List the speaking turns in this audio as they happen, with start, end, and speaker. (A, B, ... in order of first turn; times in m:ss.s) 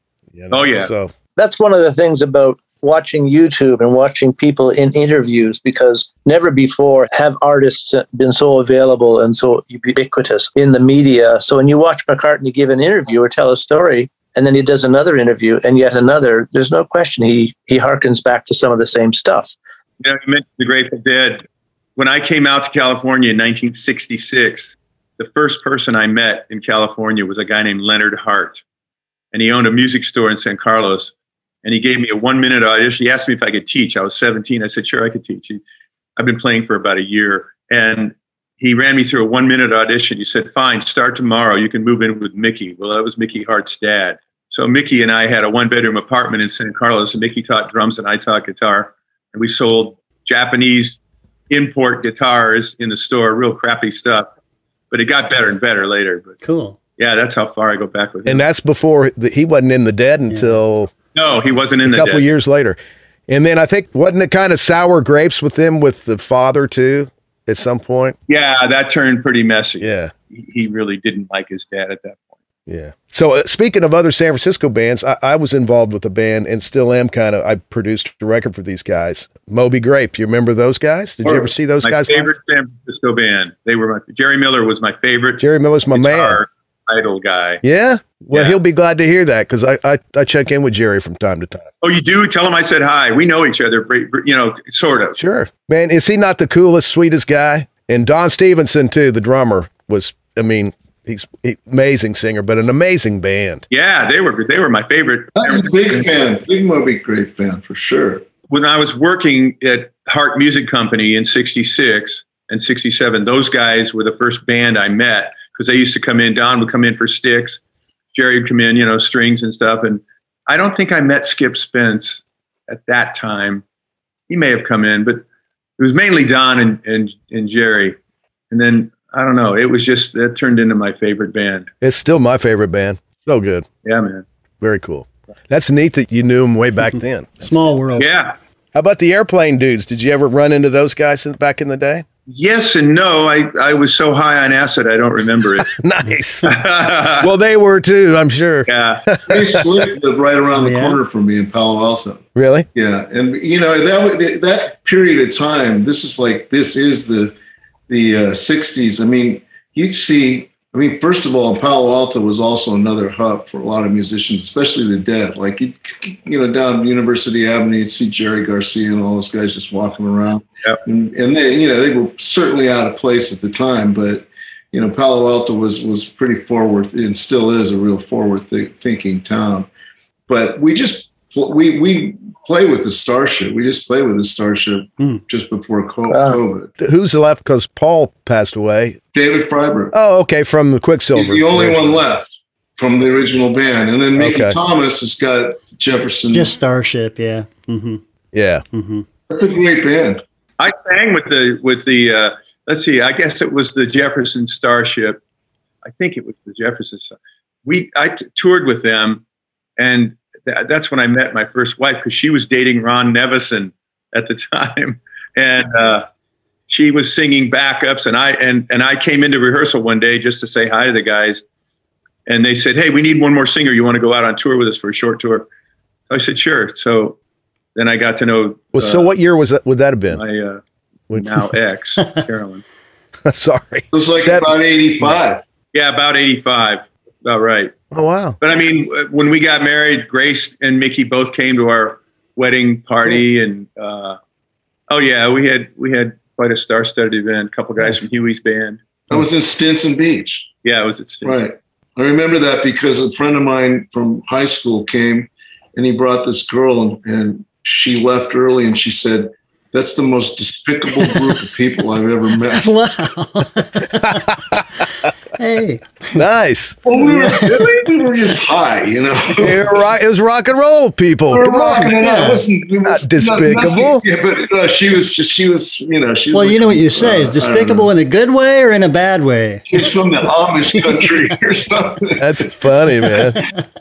0:00.3-0:01.1 A
0:00.5-0:00.9 B
0:01.4-0:19.6 C
0:20.0-0:21.4 B
0:22.0-0:28.6 B
0:29.3-0:31.1 B
0:31.6-0:35.6 B
0:36.2-0:51.0 B
0:51.5-0:54.3 B
0:54.9-0:56.4 B
0:56.4-0:56.8 D
0:57.0-0:58.4 B
0:58.2-1:00.9 A
1:00.3-1:00.6 D
1:01.1-1:02.2 B
1:01.8-1:02.8 A
1:03.3-1:08.2 A
1:08.3-1:12.3 B
1:09.8-1:10.1 A
1:12.7-1:22.3 A
1:21.2-1:27.6 B
1:25.4-1:26.4 A
1:27.6-1:31.7 A
1:28.3-1:28.6 B
1:31.8-1:35.2 B
1:35.2-1:43.6 A
1:43.7-1:46.0 B
1:45.4-1:48.2 E
1:48.5-1:57.6 B
1:58.1-2:03.6 B
2:04.3-2:05.2 B
2:05.8-2:08.0 B
2:08.5-2:11.7 B
2:11.8-2:13.6 A
2:13.8-2:14.2 B
2:14.6-2:17.6 A
2:17.4-2:18.1 D
2:18.0-2:18.3 B
2:18.7-2:22.0 A
2:22.3-2:25.7 B
2:25.7-2:26.6 A
2:26.4-2:27.3 B
2:27.1-2:29.7 A
2:28.7-2:29.0 B
2:29.3-2:37.3 E
2:30.5-2:31.0 D
2:32.4-2:32.7 A
2:37.9-2:59.7 E
3:00.3-3:06.7 E
3:06.1-3:06.4 C
3:06.8-3:09.0 A
3:09.1-3:09.9 E
3:09.9-3:12.0 A
3:11.1-3:16.5 E
3:14.2-3:14.6 A
3:16.3-3:18.0 D
3:18.3-3:18.6 A
3:18.7-3:19.0 D
3:19.3-3:20.2 E
3:20.6-3:25.2 B
3:25.8-3:27.1 B
3:27.6-3:29.2 B
3:29.8-3:36.0 B
3:36.7-3:41.4 B
3:42.2-3:45.5 B
3:46.1-3:47.2 B
3:47.8-3:49.1 B
3:48.7-3:50.2 A
3:50.1-3:52.6 B
3:51.1-3:51.4 A
3:53.2-3:54.5 A
3:53.9-3:55.4 E
3:55.7-3:57.7 B
3:57.9-3:58.4 A
3:58.4-4:04.2 B
4:04.9-4:08.8 B
4:09.1-4:10.5 E
4:10.6-4:11.4 B
4:11.2-4:22.7 E
4:21.0-4:21.4 D
4:22.5-4:24.3 D
4:24.0-4:24.8 A
4:25.4-4:26.2 D
4:26.1-4:26.8 A
4:26.8-4:29.7 E
4:27.0-4:27.7 D
4:29.4-4:31.9 A
4:31.3-4:37.9 E
4:31.9-4:32.4 D
4:32.8-4:34.0 A
4:36.3-4:39.9 D
4:39.7-4:42.3 E
4:42.2-4:43.4 A